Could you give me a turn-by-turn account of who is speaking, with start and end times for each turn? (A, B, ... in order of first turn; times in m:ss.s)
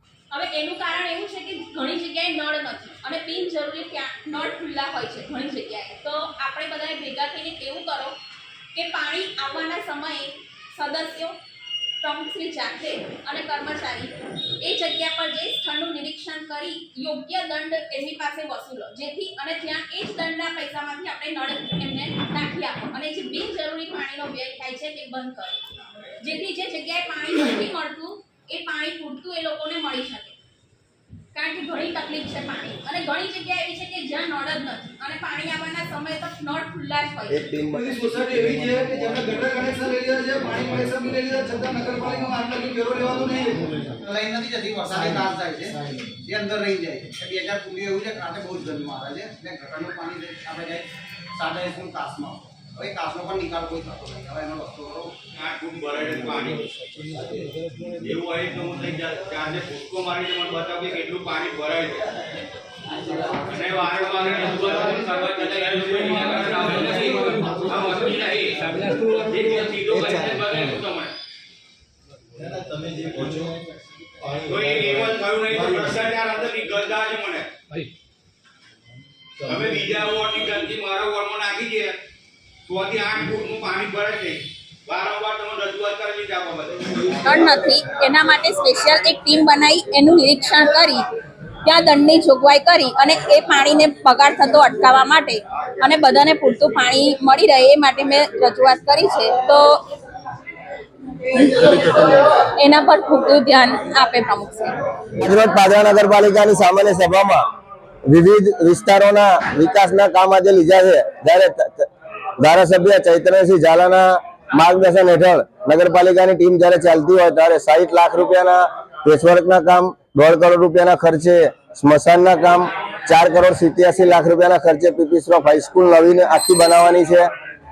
0:00.3-0:08.1 A
0:08.7-0:11.3 A
0:12.0-0:30.4 A
0:31.3-0:37.5 A
0:37.3-0:37.9 B
0:37.7-0:43.9 C
0:44.0-0:55.1 D
0:55.3-0:56.9 E
0:57.9-1:02.1 E
1:03.4-1:11.1 E
1:13.1-1:13.5 E
1:14.4-1:17.5 E
1:19.4-1:22.0 E
1:22.7-1:27.1 E
1:27.2-1:31.0 A
1:31.6-1:39.7 A
1:41.3-1:44.7 A
1:45.2-1:47.4 B
1:48.1-1:51.8 B
1:52.4-2:07.3 B